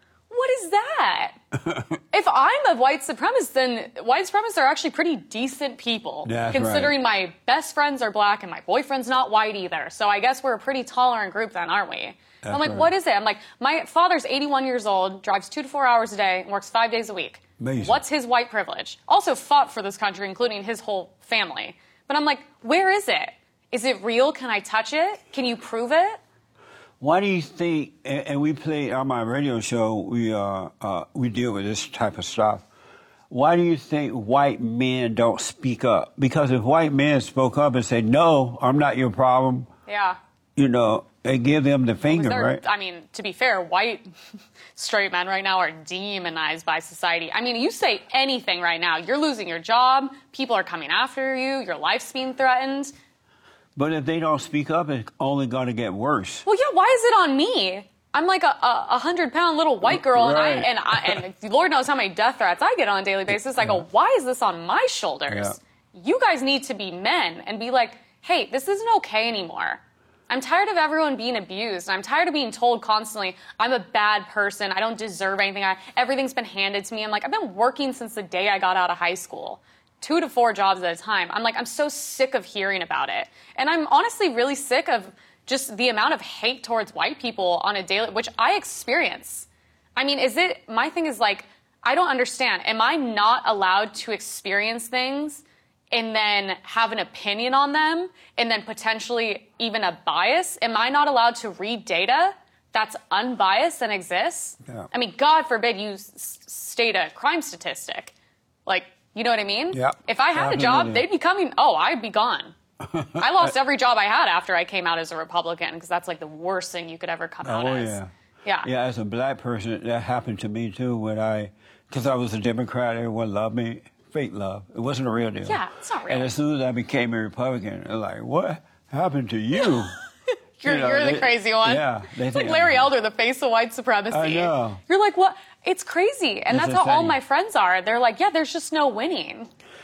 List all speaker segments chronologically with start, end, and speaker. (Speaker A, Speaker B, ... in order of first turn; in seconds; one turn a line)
Speaker A: 0.3-1.4
Speaker B: 1.6-1.9
Speaker A: 2.1-26.2
Speaker B: 6.2-7.0
Speaker B: 12.4-12.9
Speaker B: 17.6-18.0
Speaker B: 27.0-32.6
Speaker B: 33.3-39.7
Speaker A: 39.9-40.2
Speaker B: 40.6-42.6
Speaker A: 42.1-44.0
Speaker A: 44.8-52.9
Speaker B: 53.8-56.5
Speaker A: 56.5-108.1
Speaker B: 59.8-61.2
Speaker B: 63.6-63.8
Speaker B: 65.3-65.6
Speaker A: 108.7-112.5
Speaker B: 109.7-111.0
Speaker B: 112.9-113.5
Speaker A: 113.2-118.7
Speaker B: 117.4-118.1
Speaker B: 118.6-130.0
Speaker A: 125.5-126.3
Speaker A: 130.6-139.5
Speaker B: 130.6-132.9
Speaker B: 134.1-134.8
Speaker B: 136.5-137.2